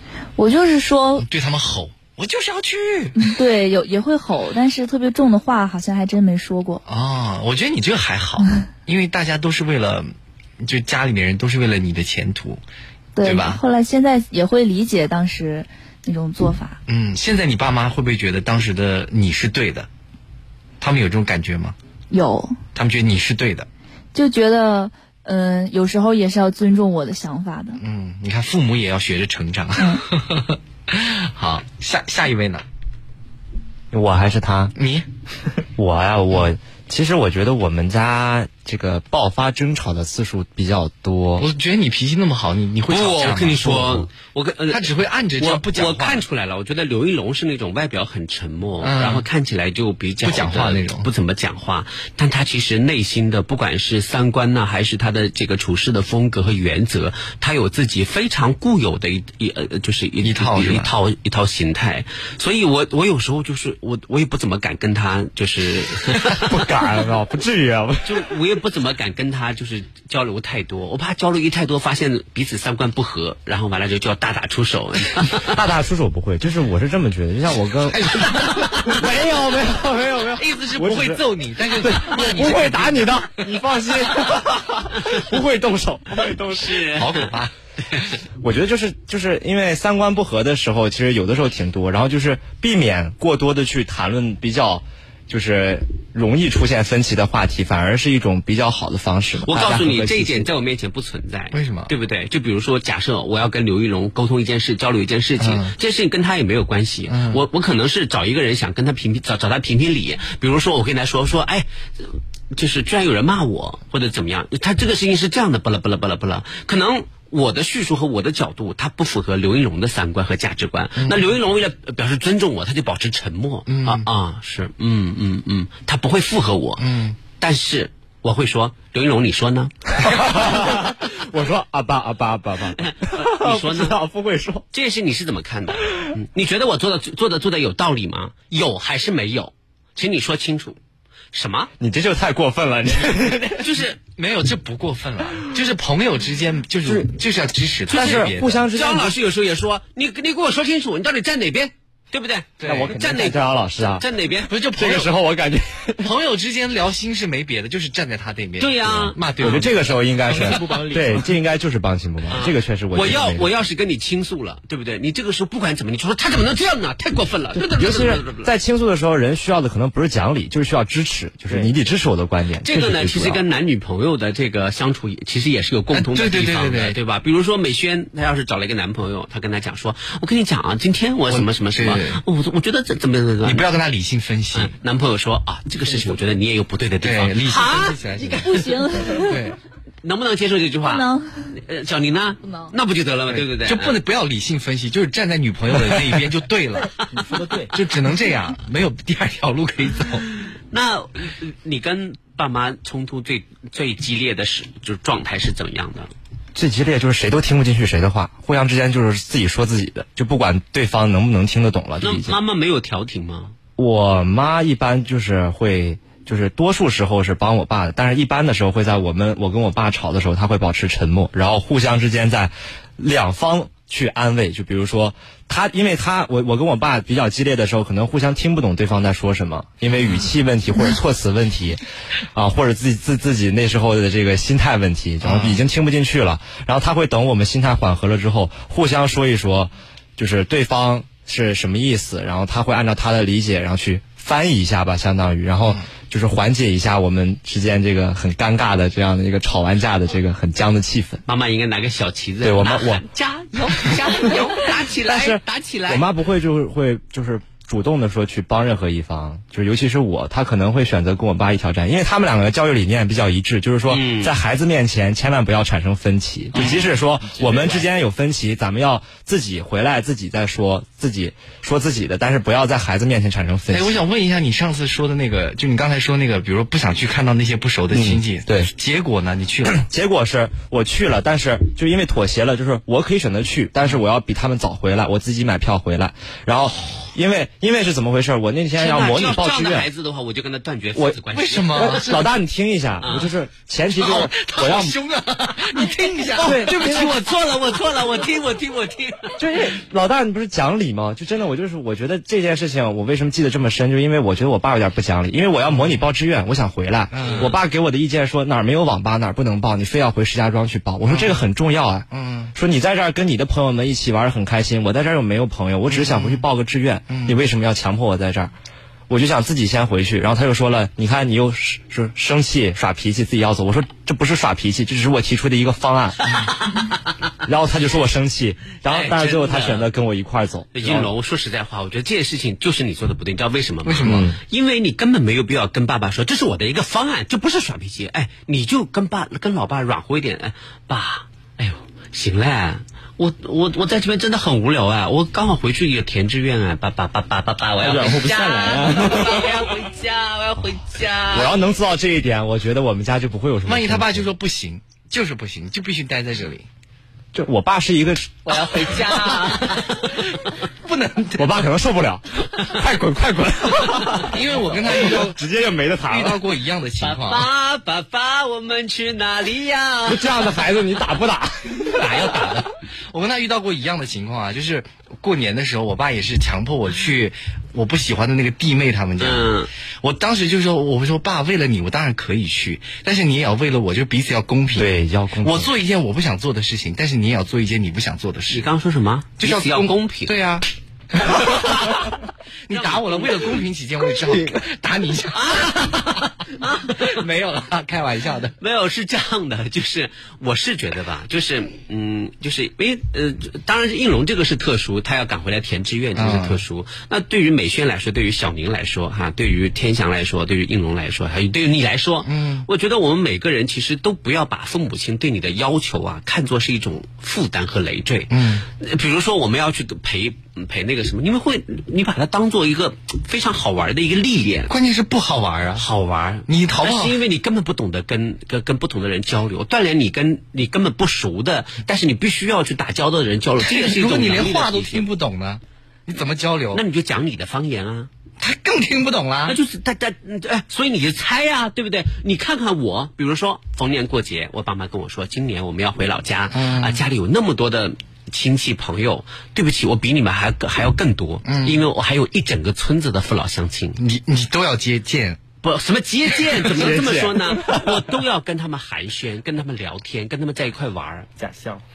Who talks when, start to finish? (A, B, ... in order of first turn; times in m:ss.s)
0:00.4-0:01.2 A
0:01.2-0:03.3 B
0:03.2-0:06.8 A
0:06.8-0:12.6 B
0:13.2-0:16.8 A
0:13.2-0:13.6 B
0:16.9-0:19.9 B
0:20.8-0:21.7 B
0:22.1-0:22.6 A
0:22.7-0:23.7 B
0:24.1-0:27.8 A
0:27.8-0:32.6 B
0:29.8-0:30.0 A
0:33.9-0:34.7 C
0:34.8-0:35.1 B
0:35.8-0:41.5 C
0:41.4-0:44.1 B
0:42.9-1:06.5 D
0:44.7-0:46.2 B
0:48.8-0:49.2 B
0:50.2-0:51.1 B
1:00.2-1:00.9 B
1:06.3-1:08.3 C
1:08.0-1:15.6 D
1:15.4-1:21.2 C
1:17.9-1:18.9 B
1:20.4-1:23.4 B
1:21.8-1:26.8 C
1:26.5-1:27.3 D
1:26.8-1:27.5 B
1:28.4-1:40.5 C
1:39.4-2:10.5 D
1:41.5-1:41.9 B
1:45.4-1:45.7 B
1:47.0-1:47.4 B
2:01.0-2:01.3 B
2:03.7-2:04.0 B
2:06.8-2:07.2 B
2:10.0-2:14.6 C
2:12.8-2:14.0 D
2:14.7-2:20.8 D
2:21.3-2:21.7 D
2:21.8-2:23.7 C
2:23.6-2:24.0 D
2:24.0-2:28.7 B
2:26.8-2:27.1 C
2:27.9-2:29.2 C
2:27.9-2:34.5 D
2:32.6-2:33.0 B
2:32.6-2:34.0 C
2:34.5-2:35.1 B
2:34.8-2:36.1 C
2:36.0-2:39.8 B
2:38.6-2:39.6 D
2:39.4-2:43.5 C
2:40.3-2:41.2 E
2:42.3-2:48.5 D
2:47.5-2:53.4 C
2:52.6-3:03.7 D
2:55.9-2:57.0 B
3:01.3-3:02.2 B
3:03.4-3:04.7 B
3:04.5-3:08.0 D
3:07.0-3:09.6 B
3:08.2-3:09.4 A
3:10.0-3:14.0 D
3:10.8-3:11.5 A
3:13.3-3:16.9 B
3:17.1-3:17.7 E
3:17.7-3:20.2 B
3:20.7-3:26.1 D
3:26.5-3:32.4 C
3:32.0-3:33.5 D
3:33.8-3:51.8 C
3:52.3-4:11.2 C
3:55.2-3:55.6 B
4:11.2-4:16.0 D
4:12.4-4:13.0 C
4:15.1-4:34.0 C
4:23.9-4:24.3 D
4:26.5-4:27.7 D
4:26.6-4:26.9 B
4:33.7-4:39.8 B
4:37.9-4:38.7 C
4:39.7-4:49.9 C
4:48.8-4:52.0 D
4:51.3-4:52.2 B
4:51.7-4:55.0 C
4:53.0-4:53.3 D
4:53.9-4:57.1 B
4:56.3-4:59.4 D
4:56.4-4:57.2 C
4:59.4-5:18.5 C
5:07.1-5:07.5 B
5:07.2-5:07.5 D
5:11.0-5:11.4 B
5:12.1-5:12.5 B
5:15.9-5:16.4 B
5:17.1-5:17.4 B
5:19.1-5:26.4 C
5:27.4-5:31.1 C
5:28.8-5:29.9 D
5:30.7-5:51.5 D
5:33.8-5:34.4 B
5:34.0-5:34.4 C
5:47.8-5:49.5 E
5:51.3-5:54.3 C
5:53.6-5:56.6 B
5:57.3-5:59.3 C
5:58.4-6:00.2 D
6:00.8-6:01.6 B
6:01.4-6:06.4 C
6:04.1-6:05.2 D
6:04.2-6:05.4 B
6:06.1-6:07.5 B
6:07.0-6:10.5 D
6:10.0-6:12.1 C
6:11.8-6:12.7 D
6:12.1-6:28.7 B
6:19.2-6:19.7 D
6:24.7-6:25.7 C
6:28.5-6:30.4 D
6:29.4-6:32.1 B
6:32.7-6:36.2 B
6:32.7-6:33.6 D
6:35.3-6:37.1 D
6:36.8-6:38.5 B
6:38.6-7:04.7 D
6:46.1-6:46.6 B
6:52.2-6:52.7 B
6:58.3-6:58.6 B
7:04.7-7:05.8 B
7:05.8-7:15.0 D
7:06.5-7:07.2 B
7:13.6-7:16.8 B
7:16.7-7:18.1 D
7:18.4-7:19.6 B
7:19.4-7:34.0 D
7:26.5-7:27.0 B
7:31.4-7:31.8 B
7:34.0-7:35.4 B
7:35.6-7:41.3 D
7:36.4-7:37.0 B
7:36.7-7:38.1 C
7:41.4-7:41.8 E